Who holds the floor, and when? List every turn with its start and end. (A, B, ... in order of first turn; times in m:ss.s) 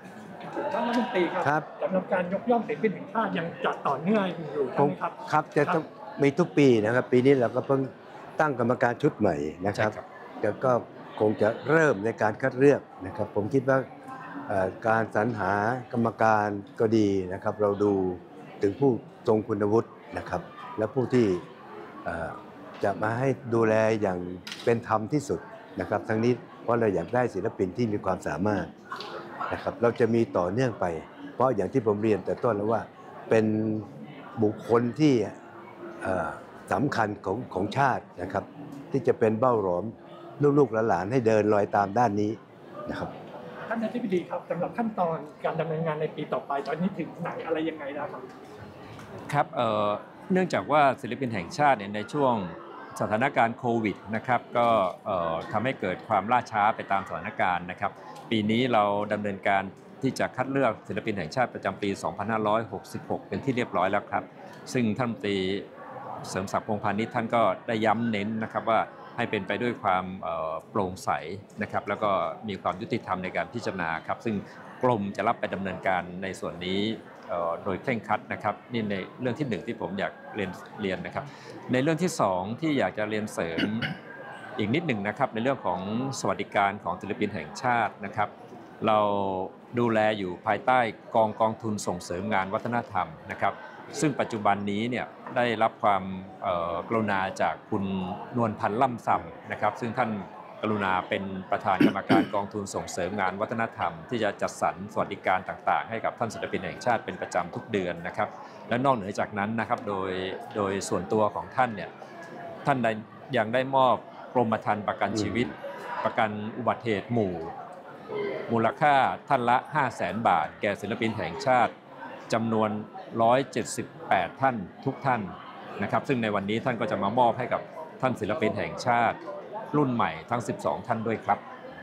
0:00.5-0:05.8 A
0:04.8-0:13.9 B
0:09.7-0:10.0 C
0:14.5-0:21.4 B
0:22.0-0:28.7 B
0:29.5-0:33.9 B
0:34.4-0:35.4 B
0:36.0-0:43.1 B
0:43.7-0:48.3 A
0:49.3-1:05.7 C
1:06.3-1:23.9 C
1:24.6-1:28.3 C
1:28.8-1:51.9 C
1:52.6-1:57.5 C
1:55.2-1:55.4 B
1:58.5-2:01.7 C
2:02.3-2:09.2 C
2:09.7-2:11.4 C